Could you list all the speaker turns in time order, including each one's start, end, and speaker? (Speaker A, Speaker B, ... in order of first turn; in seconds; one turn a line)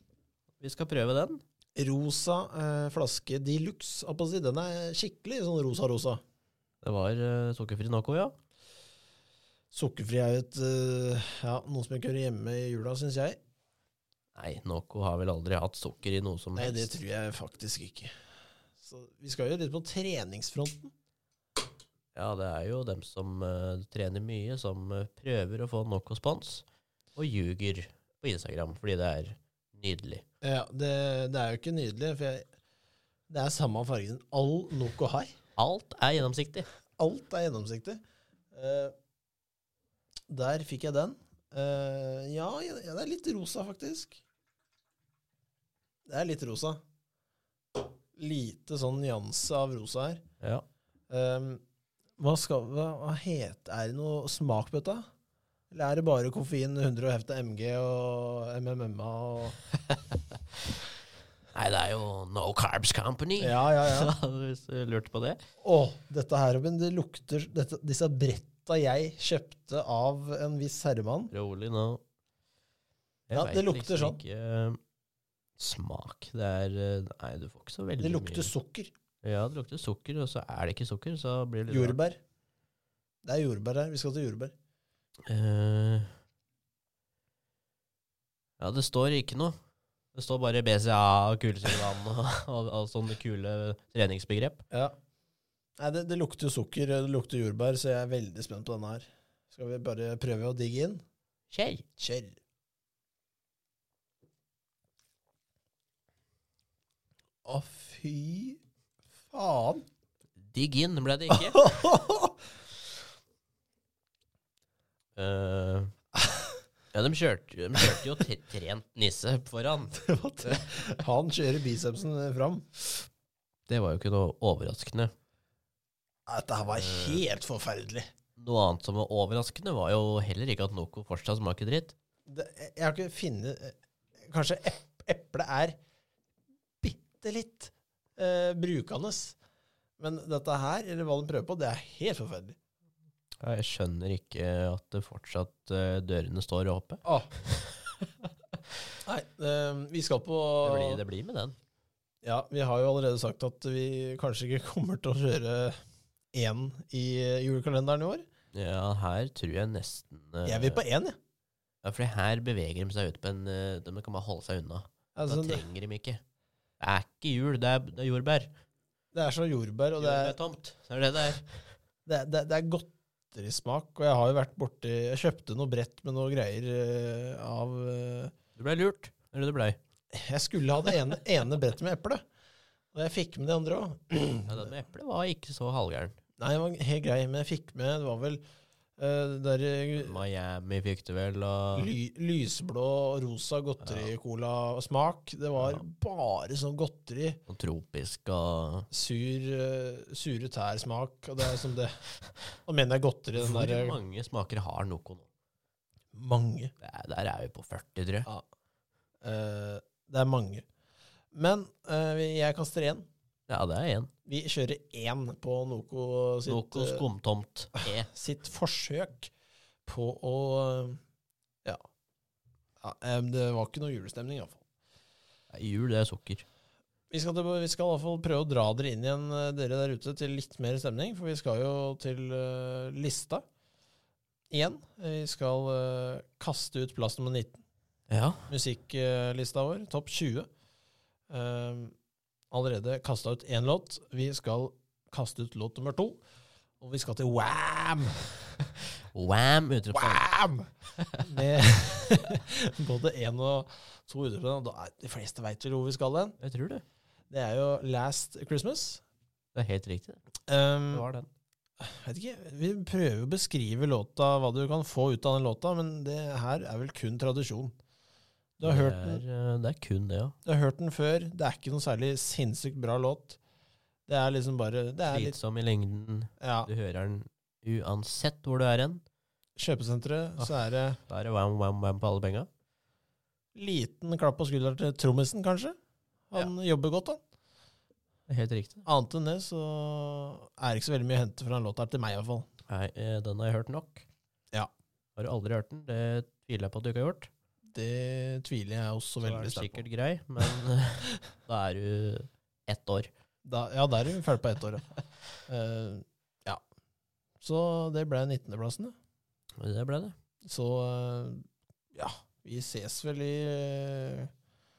Speaker A: 0.6-1.4
Speaker B: 1.8-6.2
Speaker A: 6.8-8.3
Speaker B: 9.7-13.4
Speaker A: 14.3-16.9
Speaker B: 16.5-18.1
Speaker B: 18.8-20.9
Speaker A: 22.1-26.6
Speaker A: 27.1-30.2
Speaker B: 30.4-32.5
Speaker B: 33.3-35.3
Speaker A: 35.6-36.7
Speaker B: 37.0-38.0
Speaker B: 38.5-38.9
Speaker B: 40.3-44.2
Speaker B: 46.1-46.8
Speaker B: 48.1-50.2
Speaker B: 51.1-51.6
Speaker B: 52.2-55.0
Speaker B: 55.7-59.6
Speaker A: 61.5-65.4
Speaker B: 63.4-64.1
Speaker B: 65.6-71.3
Speaker A: 71.3-72.0
Speaker A: 73.3-74.8
Speaker B: 73.3-74.2
Speaker A: 75.6-78.5
Speaker B: 78.0-78.9
Speaker A: 79.2-82.0
Speaker B: 81.7-82.2
Speaker B: 83.2-84.5
Speaker A: 85.3-86.1
Speaker A: 88.6-89.5
Speaker A: 90.1-94.6
Speaker B: 95.8-101.0
Speaker A: 101.5-101.8
Speaker B: 102.0-102.3
Speaker B: 107.4-108.6
Speaker B: 109.3-109.8
Speaker A: 110.4-111.6
Speaker B: 111.3-112.3
Speaker A: 115.2-115.9
Speaker A: 116.9-120.8
Speaker B: 119.9-122.8
Speaker A: 123.7-125.1
Speaker B: 126.3-128.1
Speaker A: 126.7-127.2
Speaker A: 128.4-131.9
Speaker B: 132.3-135.8
Speaker B: 136.8-139.4
Speaker B: 140.0-142.6
Speaker A: 143.4-147.0
Speaker B: 147.0-147.3
Speaker B: 149.1-151.0
Speaker A: 150.6-151.6
Speaker B: 152.2-155.8
Speaker B: 156.3-158.2
Speaker A: 158.5-160.8
Speaker B: 160.4-161.2
Speaker A: 161.8-166.2
Speaker B: 165.2-165.7
Speaker A: 166.8-168.5
Speaker B: 169.1-170.4
Speaker A: 170.0-171.4
Speaker B: 172.1-178.3
Speaker A: 178.6-179.8
Speaker B: 180.1-182.2
Speaker B: 182.9-184.7
Speaker A: 184.5-186.2
Speaker B: 186.4-188.4
Speaker B: 189.0-190.2
Speaker A: 190.0-191.9
Speaker B: 191.7-197.4
Speaker A: 193.8-194.1
Speaker A: 197.5-198.9
Speaker B: 198.9-202.0
Speaker B: 202.6-204.0
Speaker A: 203.3-205.3
Speaker B: 206.1-206.7
Speaker A: 206.8-208.3
Speaker B: 209.2-210.6
Speaker B: 211.3-213.1
Speaker A: 213.5-214.1
Speaker B: 214.2-217.1
Speaker A: 216.4-218.1
Speaker B: 217.8-219.3
Speaker B: 219.8-221.0
Speaker B: 222.8-224.6
Speaker A: 225.5-226.4
Speaker B: 227.1-233.4
Speaker B: 234.5-237.6
Speaker A: 238.1-238.5
Speaker B: 238.5-240.5
Speaker B: 241.3-241.9
Speaker B: 242.5-246.2
Speaker B: 246.8-248.7
Speaker A: 249.1-250.3
Speaker B: 249.9-250.7
Speaker A: 250.9-251.2
Speaker B: 251.2-256.4
Speaker A: 256.4-256.8
Speaker B: 257.3-259.0
Speaker A: 259.5-260.2
Speaker B: 260.5-261.1
Speaker A: 260.9-261.3
Speaker B: 261.8-267.7
Speaker B: 268.6-269.2
Speaker A: 268.6-270.3
Speaker B: 270.4-273.4
Speaker B: 274.1-275.4
Speaker A: 275.1-279.0
Speaker B: 276.4-276.7
Speaker B: 279.6-281.0
Speaker A: 280.4-282.5
Speaker B: 283.5-285.8
Speaker B: 286.3-287.2
Speaker A: 288.3-288.8
Speaker B: 288.8-292.5
Speaker A: 292.7-294.1
Speaker A: 295.1-297.3
Speaker B: 297.7-299.8
Speaker A: 299.2-303.1
Speaker B: 303.4-304.8
Speaker B: 305.5-306.6
Speaker B: 307.4-308.9
Speaker A: 309.6-310.1
Speaker B: 310.4-314.3